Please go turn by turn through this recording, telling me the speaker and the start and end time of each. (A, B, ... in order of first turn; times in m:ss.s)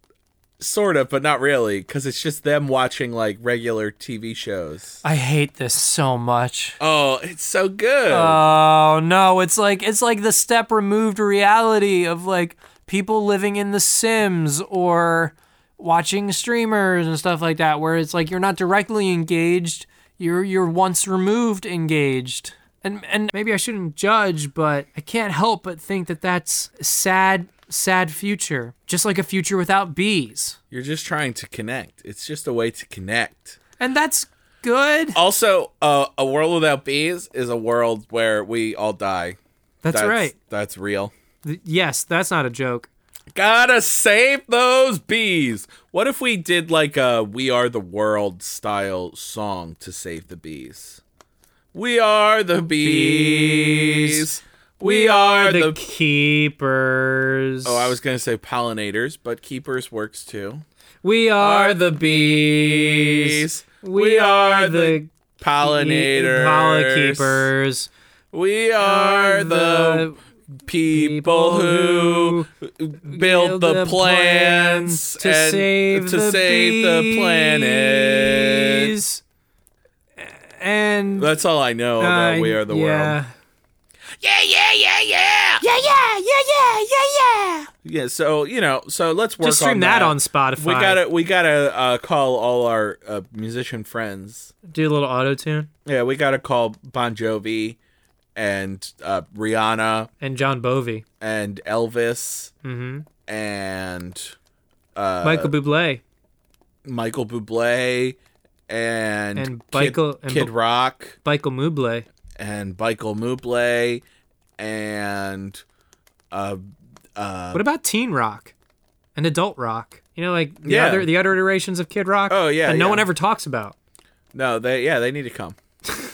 0:00.6-0:05.0 A
0:05.0-0:06.8 B
0:06.8-0:08.4 A
0:08.1-0:30.6 B
0:30.7-0:33.6 A
0:33.8-0:35.2 B
0:35.1-0:39.4 A
0:39.8-0:40.3 B
0:39.9-0:41.1 A
0:41.4-0:42.9 B
0:43.3-0:51.0 A
0:51.7-0:55.8 A
0:52.8-0:54.3 B
0:54.8-0:57.9 B
0:57.6-1:00.6 A
1:01.0-1:07.9 B
1:01.4-1:07.5 A
1:08.3-1:10.1 A
1:08.8-1:10.2 B
1:10.6-1:18.9 A
1:10.9-1:12.5 B
1:13.0-1:19.2 B
1:20.2-1:21.3 B
1:21.2-1:23.2 A
1:22.0-1:23.3 B
1:24.2-1:25.6 A
1:25.6-1:27.7 B
1:27.8-1:34.5 A
1:29.4-1:31.0 B
1:34.6-1:35.7 B
1:35.8-1:37.8 A
1:38.4-1:40.1 A
1:40.2-1:41.0 B
1:41.2-1:42.5 A
1:42.6-1:43.0 B
1:43.2-1:44.3 A
1:44.9-1:45.5 A
1:45.2-1:46.0 B
1:46.8-1:48.2 A
1:48.7-1:51.2 A
1:49.4-1:50.5 B
1:51.2-1:52.0 B
1:52.4-1:54.0 A
1:54.6-1:55.6 A
1:56.3-1:56.6 A
1:57.2-1:57.6 A
1:57.5-1:58.5 B
1:59.1-2:03.7 B
2:00.6-2:01.1 A
2:02.3-2:03.1 A
2:04.3-2:05.6 A